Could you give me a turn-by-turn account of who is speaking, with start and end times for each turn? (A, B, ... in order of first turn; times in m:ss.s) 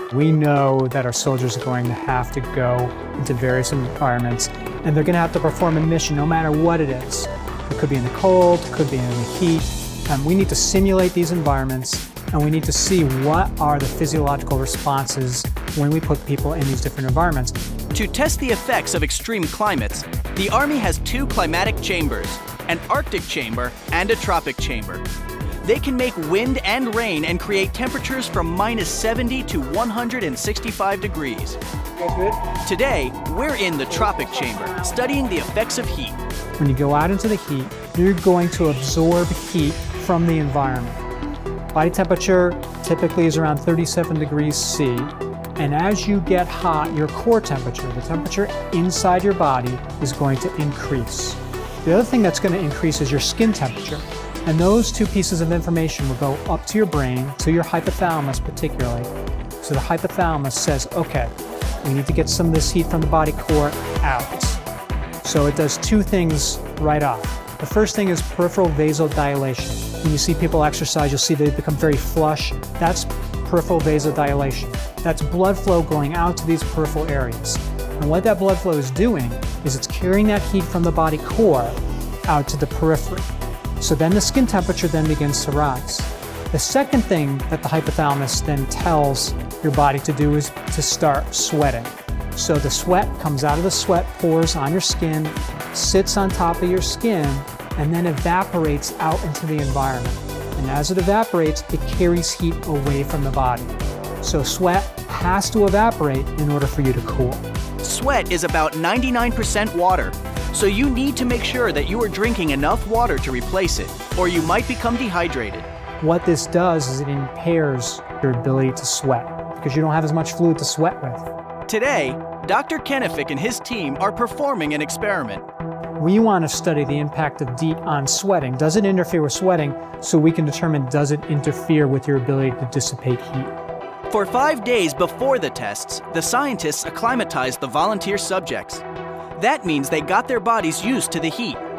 0:00.1-0:17.6 A
0:17.9-0:25.0 B
0:25.6-0:31.6 B
0:32.1-0:32.3 A
0:32.6-0:36.2 B
0:33.9-0:35.4 A
0:36.6-0:41.0 A
0:41.7-0:59.1 A
0:59.6-1:04.6 A
1:05.2-1:23.2 A
1:23.8-1:47.4 A
1:47.8-1:55.7 B
1:56.0-2:01.3 A
2:01.7-2:05.4 B
2:06.0-2:13.5 A
2:14.1-2:18.8 B
2:19.4-2:21.6 B